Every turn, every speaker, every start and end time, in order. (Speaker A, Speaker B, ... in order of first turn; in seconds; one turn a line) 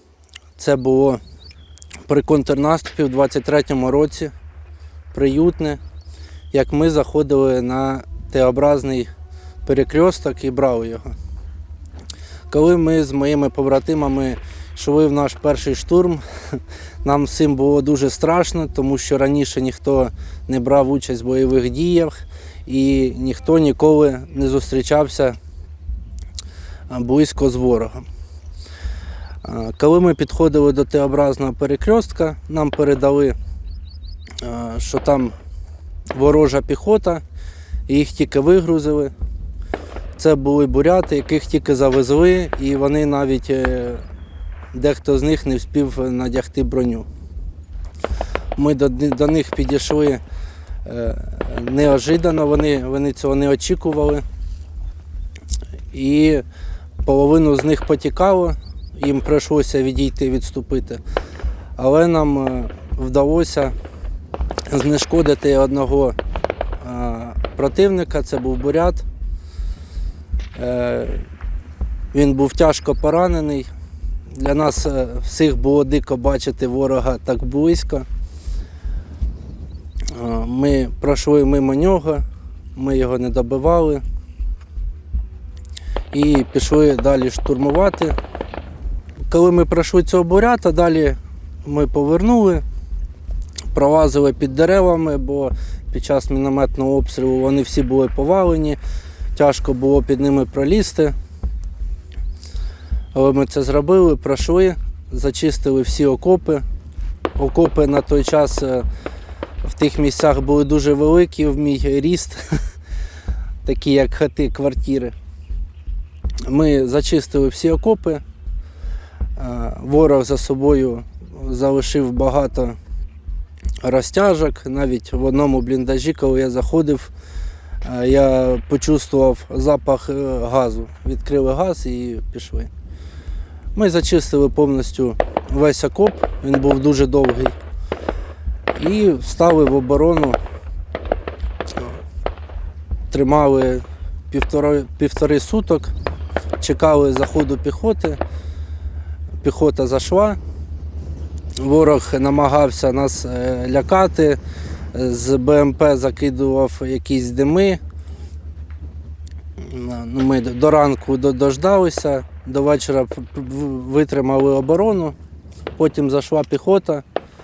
Speaker A: 0.6-1.2
Speaker A: 2.1-4.3
Speaker A: 5.1-5.8
Speaker A: 6.5-9.1
Speaker A: 9.6-11.1
Speaker A: 12.5-22.1
Speaker A: 22.6-25.4
Speaker A: 26.9-28.0
Speaker A: 29.4-33.4
Speaker A: 34.4-35.3
Speaker A: 36.1-37.2
Speaker A: 37.9-39.1
Speaker A: 40.1-44.0
Speaker A: 44.7-47.1
Speaker A: 48.5-50.2
Speaker A: 50.8-54.2
Speaker A: 55.9-56.4
Speaker A: 57.0-61.0
Speaker A: 61.8-63.7
Speaker A: 64.7-66.2
Speaker A: 66.8-69.0
Speaker A: 70.5-71.3
Speaker A: 72.1-73.7
Speaker A: 74.3-78.0
Speaker A: 80.1-84.0
Speaker A: 86.1-88.2
Speaker A: 89.3-92.6
Speaker A: 93.7-98.8
Speaker A: 99.3-101.1
Speaker A: 103.1-106.6
Speaker A: 107.3-108.8
Speaker A: 109.6-112.7
Speaker A: 113.6-115.1
Speaker A: 116.4-118.2
Speaker A: 119.4-122.8
Speaker A: 123.8-127.1
Speaker A: 127.8-132.7
Speaker A: 133.7-137.6
Speaker A: 138.7-140.4
Speaker A: 143.1-145.9
Speaker A: 146.6-148.2
Speaker A: 149.4-150.4
Speaker A: 151.6-154.4
Speaker A: 154.9-157.8
Speaker A: 159.6-165.1
Speaker A: 165.8-167.0